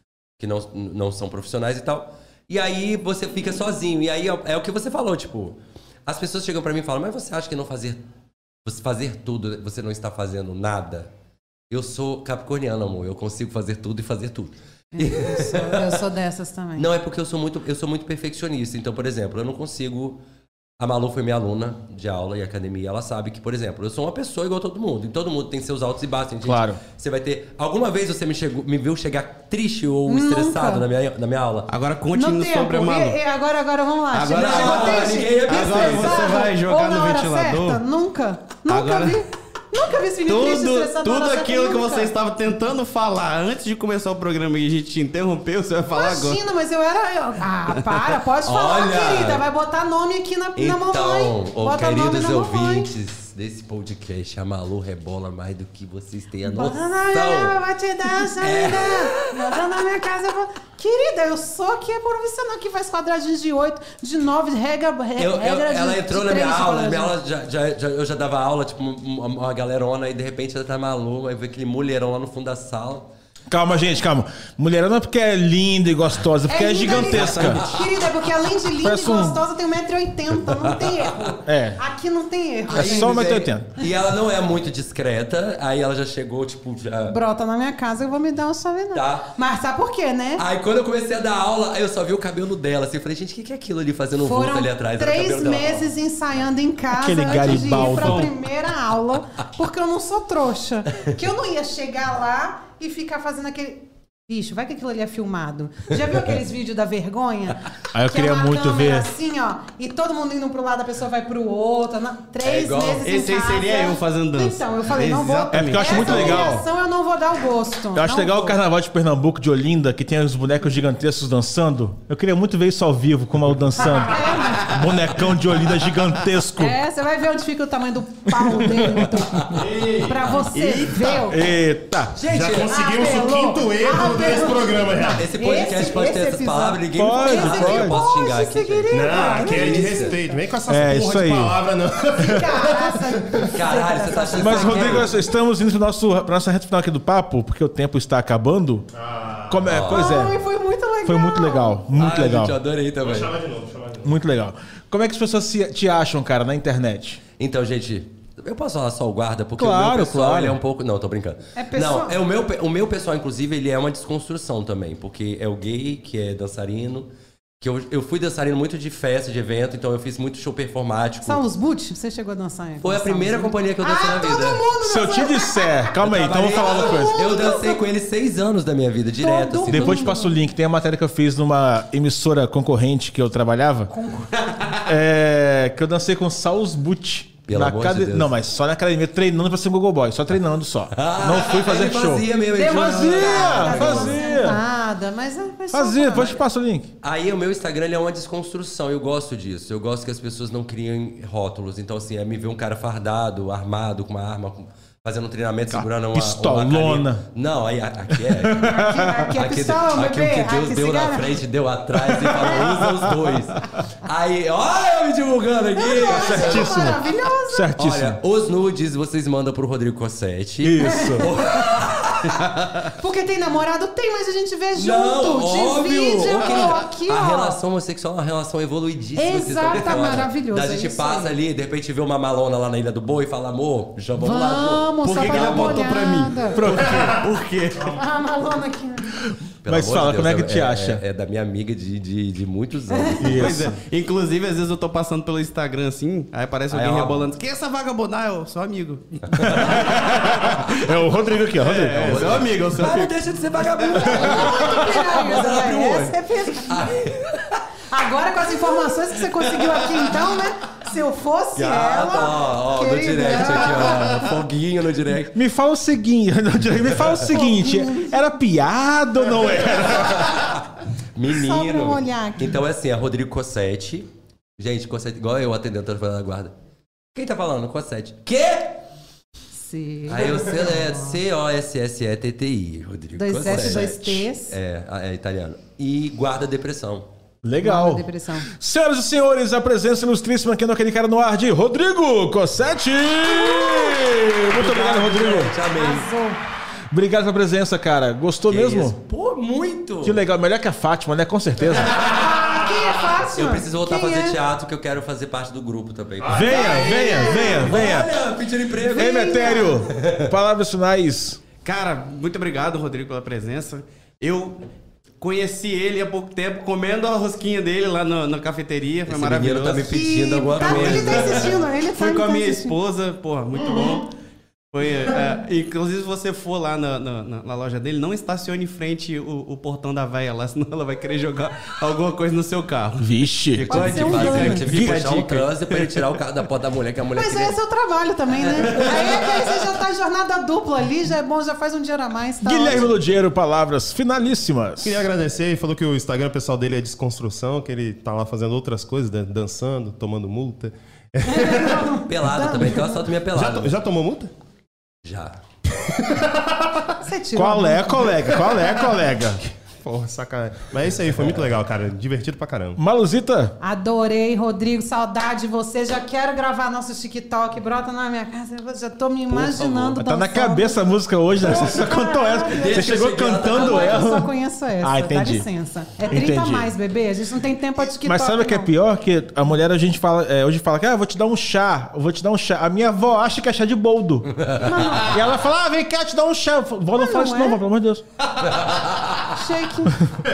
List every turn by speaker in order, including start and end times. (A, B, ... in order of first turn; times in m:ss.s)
0:00.4-0:08.0 A
0:08.6-0:11.1 A
0:11.7-0:16.0 A
0:14.9-0:16.9 B
0:16.8-0:20.2 A
0:20.8-0:31.7 A
0:26.4-0:26.8 C
0:30.1-0:30.8 B
0:31.7-0:33.2 D
0:32.1-0:42.1 B
0:34.1-0:37.8 D
0:34.3-0:36.4 A
0:38.7-0:39.2 D
0:40.3-0:46.4 D
0:45.9-0:52.9 B
0:48.4-0:49.4 A
0:50.6-0:57.6 A
0:56.4-1:07.2 B
0:58.2-0:59.3 A
1:05.2-1:13.1 A
1:13.5-1:17.7 C
1:16.5-1:23.3 B
1:16.9-1:17.8 D
1:18.8-1:19.4 C
1:20.4-1:21.4 A
1:21.4-1:21.8 C
1:22.7-1:27.2 A
1:22.7-1:23.7 C
1:27.1-1:30.4 B
1:28.9-1:29.3 A
1:30.4-1:35.9 A
1:34.2-1:58.6 B
1:36.9-1:38.3 C
1:37.5-1:38.2 D
1:47.9-1:49.1 C
1:52.4-1:53.1 A
1:53.0-1:56.5 D
1:55.5-1:56.7 C
1:57.9-2:06.8 C
2:03.8-2:04.8 B
2:06.6-2:11.6 B
2:08.3-2:09.6 C
2:09.5-2:11.2 D
2:11.3-2:12.2 C
2:12.2-2:12.8 A
2:12.3-2:15.2 E
2:12.6-2:20.4 B
2:15.1-2:20.2 A
2:16.9-2:18.0 C
2:18.9-2:23.5 E
2:20.7-2:21.6 C
2:22.1-2:25.3 B
2:23.5-2:25.1 A
2:24.4-2:28.9 C
2:29.0-2:29.7 E
2:29.5-2:30.4 C
2:29.7-2:30.2 A
2:29.9-2:31.8 B
2:31.0-2:32.6 C
2:31.9-2:33.4 A
2:33.0-2:34.1 E
2:34.0-2:37.2 C
2:37.4-2:47.1 A
2:39.6-2:40.6 C
2:41.6-2:42.2 B
2:47.6-2:51.4 A
2:51.2-2:57.8 B
2:52.8-2:54.7 A
2:54.8-2:57.2 C
2:56.0-3:00.2 A
2:59.2-3:00.4 B
2:59.7-3:03.9 C
3:03.9-3:04.5 B
3:04.8-3:14.6 C
3:07.5-3:08.3 A
3:10.9-3:14.2 A
3:12.6-3:16.4 B
3:15.7-3:16.9 C
3:17.0-3:37.0 A
3:25.7-3:27.2 C
3:28.1-3:29.3 C
3:28.6-3:31.4 B
3:32.0-3:33.4 C
3:35.8-3:37.7 B
3:36.0-3:38.2 C
3:37.8-3:42.9 A
3:40.6-3:41.3 C
3:40.8-3:41.8 B
3:42.9-3:47.6 B
3:44.7-3:56.0 A
3:49.2-3:51.4 B
3:54.2-3:56.6 B
3:55.1-3:58.0 D
3:56.5-3:57.3 C
3:57.9-3:59.1 B
3:59.2-4:01.0 C
3:59.6-4:03.5 A
4:02.9-4:03.3 B
4:03.2-4:03.8 C
4:03.3-4:10.9 D
4:06.7-4:07.2 A
4:09.3-4:10.1 A
4:09.4-4:12.4 C
4:11.6-4:13.2 D
4:12.0-4:17.6 A
4:14.1-4:16.9 B
4:17.9-4:24.2 B
4:18.7-4:20.2 A
4:21.6-4:25.4 A
4:25.3-4:30.4 C
4:27.3-4:28.2 B
4:30.0-4:30.6 A
4:31.2-4:36.6 A
4:31.3-4:32.6 B
4:37.1-4:38.8 A
4:39.5-4:41.2 B
4:40.1-4:47.1 A
4:43.2-4:44.6 B
4:43.4-4:43.9 C
4:47.4-4:55.6 C
4:47.6-4:48.5 B
4:53.5-4:53.8 A
4:54.4-4:56.1 A
4:55.7-4:56.4 B
4:56.9-4:59.0 C
4:58.5-5:00.2 A
5:00.0-5:02.2 C
5:01.9-5:04.4 B
5:03.1-5:10.3 A
5:06.2-5:07.1 E
5:06.3-5:08.2 C
5:06.8-5:07.7 B
5:08.8-5:09.9 B
5:08.9-5:11.4 C
5:11.6-5:14.6 D
5:15.2-5:24.1 D
5:19.1-5:21.6 A
5:19.9-5:22.8 B
5:24.7-5:36.0 D
5:33.0-5:35.4 C
5:33.7-5:34.7 B
5:33.7-5:37.6 A
5:37.2-5:42.9 B
5:38.4-5:39.5 A
5:42.4-5:45.0 C
5:44.8-5:51.9 E
5:51.2-5:53.0 B
5:51.9-5:53.7 A
5:53.3-5:54.3 E
5:55.0-5:55.4 A
5:55.7-5:56.9 E
5:57.0-5:58.2 B
5:57.3-5:59.4 C
5:59.8-6:02.8 E
6:02.8-6:03.6 C
6:03.6-6:10.8 B
6:09.3-6:15.5 C
6:11.4-6:18.7 B
6:12.6-6:14.1 A
6:16.0-6:16.7 C
6:17.8-6:24.3 C
6:24.4-6:25.0 A
6:24.6-6:25.2 B
6:25.0-6:28.0 C
6:27.0-6:27.6 B
6:28.4-6:29.4 A
6:29.3-6:30.0 B